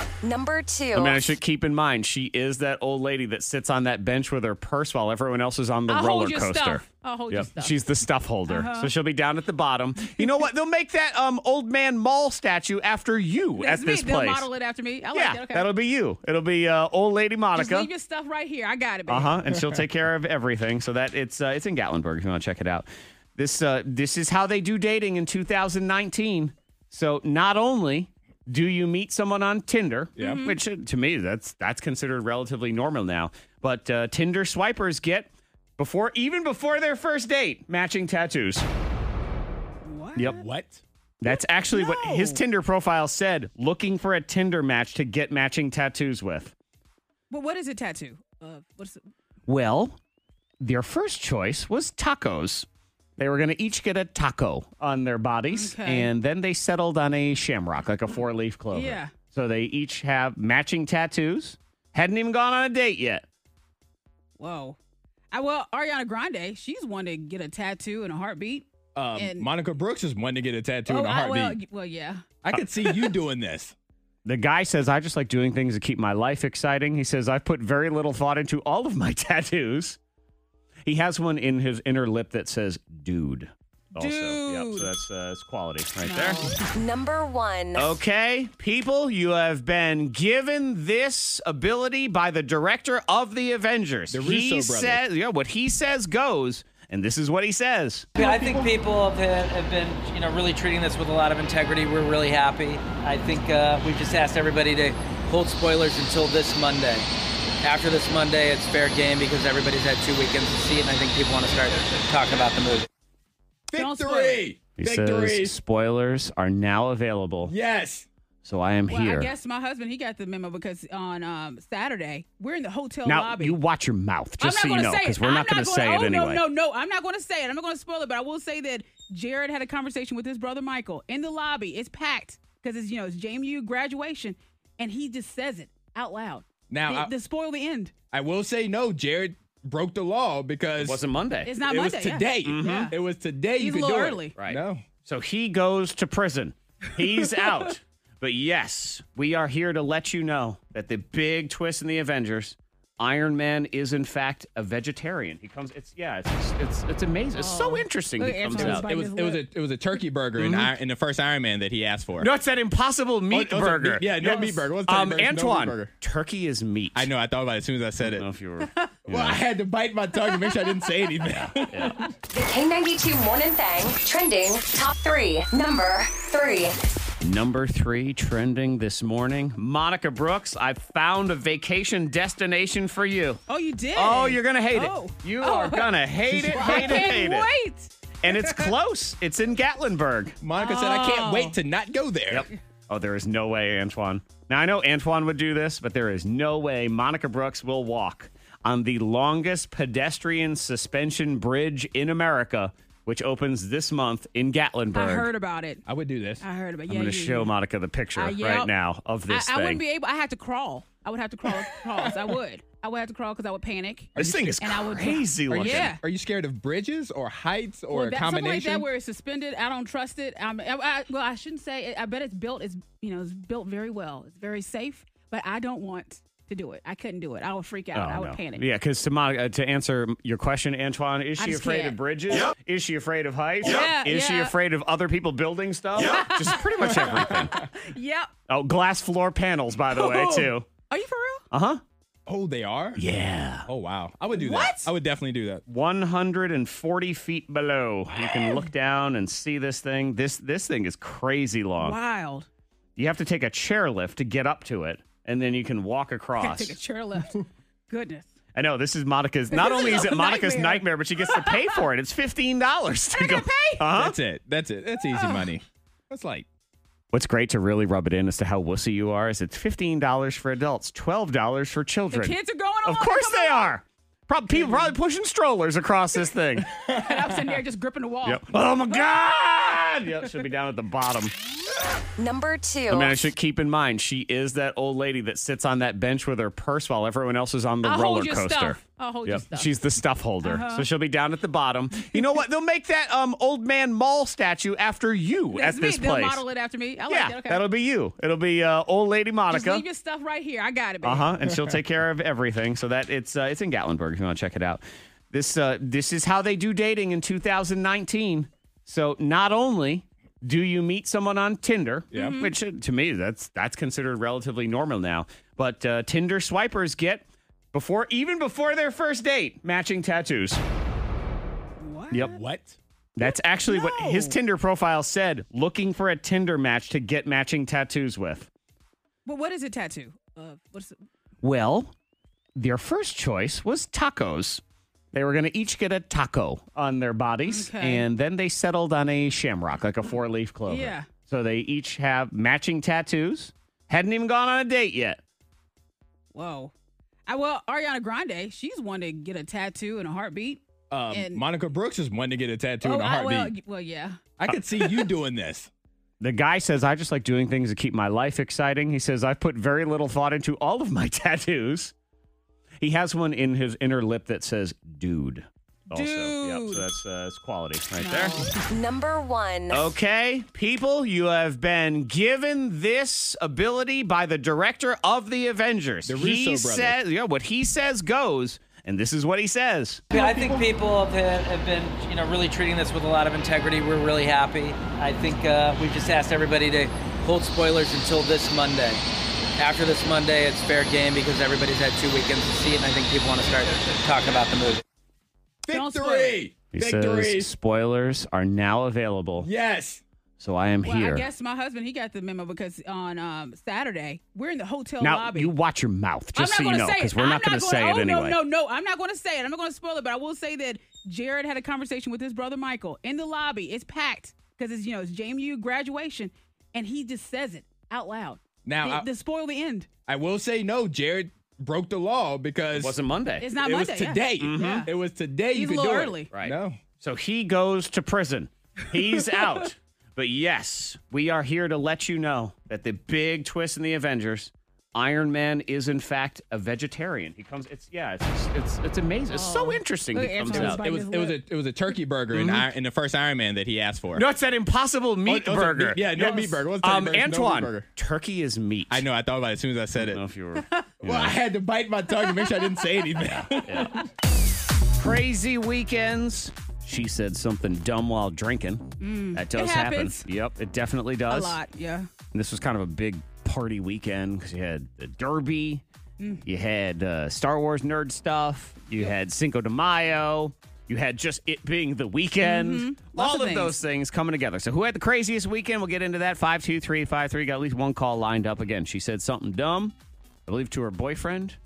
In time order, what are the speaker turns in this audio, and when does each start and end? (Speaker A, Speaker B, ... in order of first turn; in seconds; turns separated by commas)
Speaker A: 0.2-1.3, Speaker B: 0.9-14.5, Speaker C: 5.9-7.8, Speaker C: 8.5-8.9, Speaker C: 13.6-15.7, Speaker B: 15.1-17.9, Speaker C: 17.5-19.4, Speaker B: 19.1-38.7, Speaker C: 30.2-30.6, Speaker C: 39.8-40.4, Speaker D: 40.2-40.8, Speaker B: 41.2-46.5, Speaker C: 41.2-42.4, Speaker C: 47.3-49.0, Speaker B: 49.5-50.0, Speaker B: 50.6-52.7, Speaker B: 53.2-63.2, Speaker C: 55.5-56.1, Speaker C: 58.7-59.1, Speaker C: 64.4-64.8, Speaker C: 65.3-69.5, Speaker D: 68.9-71.6, Speaker C: 70.9-72.2, Speaker D: 72.4-73.7, Speaker B: 72.5-73.0, Speaker B: 74.2-80.0, Speaker B: 80.8-86.4, Speaker C: 83.9-84.9, Speaker C: 86.0-86.5, Speaker A: 86.7-88.0, Speaker B: 87.7-98.1, Speaker D: 94.1-95.0, Speaker C: 98.2-98.5, Speaker E: 98.2-107.1, Speaker E: 107.6-112.9, Speaker D: 113.7-115.5, Speaker C: 113.7-114.5, Speaker B: 114.8-117.5, Speaker D: 117.4-118.1, Speaker B: 118.4-119.3, Speaker C: 118.9-123.6, Speaker B: 123.0-126.4, Speaker C: 124.4-137.9, Speaker D: 136.7-137.1, Speaker D: 138.1-141.0, Speaker B: 140.8-141.5, Speaker C: 141.4-142.9, Speaker D: 141.7-144.8, Speaker B: 142.4-142.9, Speaker C: 143.6-144.3, Speaker B: 144.3-158.8, Speaker C: 157.3-159.4, Speaker D: 158.5-162.3, Speaker B: 160.4-160.7, Speaker B: 162.2-167.1, Speaker D: 163.3-165.9, Speaker D: 166.9-168.3, Speaker B: 168.0-169.4, Speaker D: 169.1-172.1, Speaker C: 170.2-170.9, Speaker B: 171.2-172.0, Speaker A: 172.3-176.8, Speaker B: 177.2-183.4, Speaker C: 183.5-185.9, Speaker B: 183.9-187.5, Speaker D: 186.3-187.1, Speaker C: 186.5-188.7, Speaker B: 188.2-190.4, Speaker D: 190.4-192.5, Speaker C: 190.6-191.6, Speaker B: 192.3-205.3, Speaker C: 204.9-205.8, Speaker D: 205.8-206.4, Speaker C: 206.4-207.5, Speaker B: 206.9-209.8, Speaker C: 208.1-208.7, Speaker C: 209.3-216.0, Speaker D: 211.5-212.3, Speaker D: 214.2-214.7, Speaker B: 214.2-215.9, Speaker D: 215.5-218.9, Speaker C: 217.9-228.6, Speaker B: 227.9-237.6, Speaker C: 231.4-232.0, Speaker C: 233.6-234.5, Speaker C: 236.0-238.3, Speaker B: 238.5-240.7, Speaker C: 240.0-241.4, Speaker B: 241.5-241.8, Speaker D: 242.2-243.0, Speaker B: 242.9-243.7, Speaker D: 243.7-245.6, Speaker C: 244.3-244.9, Speaker B: 245.7-252.0, Speaker C: 251.8-252.5, Speaker B: 252.9-256.8, Speaker C: 256.4-258.3, Speaker B: 258.5-264.1, Speaker C: 259.5-261.8, Speaker C: 263.1-263.8, Speaker D: 263.9-266.4, Speaker C: 265.1-265.5, Speaker B: 267.1-276.7, Speaker C: 272.1-273.7, Speaker C: 274.5-274.9, Speaker C: 276.8-279.2, Speaker D: 276.9-277.5, Speaker B: 278.2-281.3, Speaker A: 282.2-283.3, Speaker B: 282.9-296.4, Speaker C: 287.8-289.7, Speaker C: 290.4-290.9, Speaker C: 295.5-297.6, Speaker B: 297.1-299.8, Speaker C: 299.5-301.3, Speaker B: 301.0-320.6, Speaker C: 312.1-312.5, Speaker C: 321.8-322.4, Speaker D: 322.1-322.8, Speaker B: 323.1-328.5, Speaker C: 323.2-324.4, Speaker C: 329.2-331.0, Speaker B: 331.4-331.9, Speaker B: 332.6-334.6, Speaker B: 335.1-345.2, Speaker C: 337.4-338.1, Speaker C: 340.7-341.1, Speaker C: 346.3-346.7, Speaker C: 347.3-351.4, Speaker D: 350.9-353.5, Speaker C: 352.8-354.2, Speaker D: 354.4-355.7, Speaker B: 356.2-361.9, Speaker B: 362.8-368.4, Speaker C: 365.9-366.9, Speaker C: 368.0-368.4, Speaker A: 368.7-369.9, Speaker B: 369.7-380.0, Speaker D: 376.1-377.0, Speaker E: 380.1-389.0, Speaker E: 389.6-394.8, Speaker D: 395.6-397.5, Speaker C: 395.7-396.4, Speaker B: 396.7-399.5, Speaker D: 399.4-400.0, Speaker B: 400.4-401.3, Speaker C: 400.8-405.5, Speaker B: 405.0-408.4, Speaker C: 406.4-419.9, Speaker D: 418.6-419.1, Speaker D: 420.1-423.0, Speaker B: 422.7-423.5, Speaker C: 423.4-424.9, Speaker D: 423.6-426.8, Speaker B: 424.4-424.9, Speaker C: 425.5-426.3, Speaker B: 426.3-440.8, Speaker C: 439.3-441.4, Speaker D: 440.5-444.2, Speaker B: 442.3-442.7, Speaker B: 444.1-449.0, Speaker D: 445.2-447.9, Speaker D: 448.9-450.2, Speaker B: 450.0-451.3, Speaker D: 451.0-454.0, Speaker C: 452.2-452.9, Speaker B: 453.2-454.0, Speaker B: 455.0-461.6, Speaker C: 459.0-460.2, Speaker C: 461.3-462.1, Speaker B: 462.3-465.8, Speaker B: 466.4-479.9, Speaker C: 472.4-473.8, Speaker B: 480.5-481.6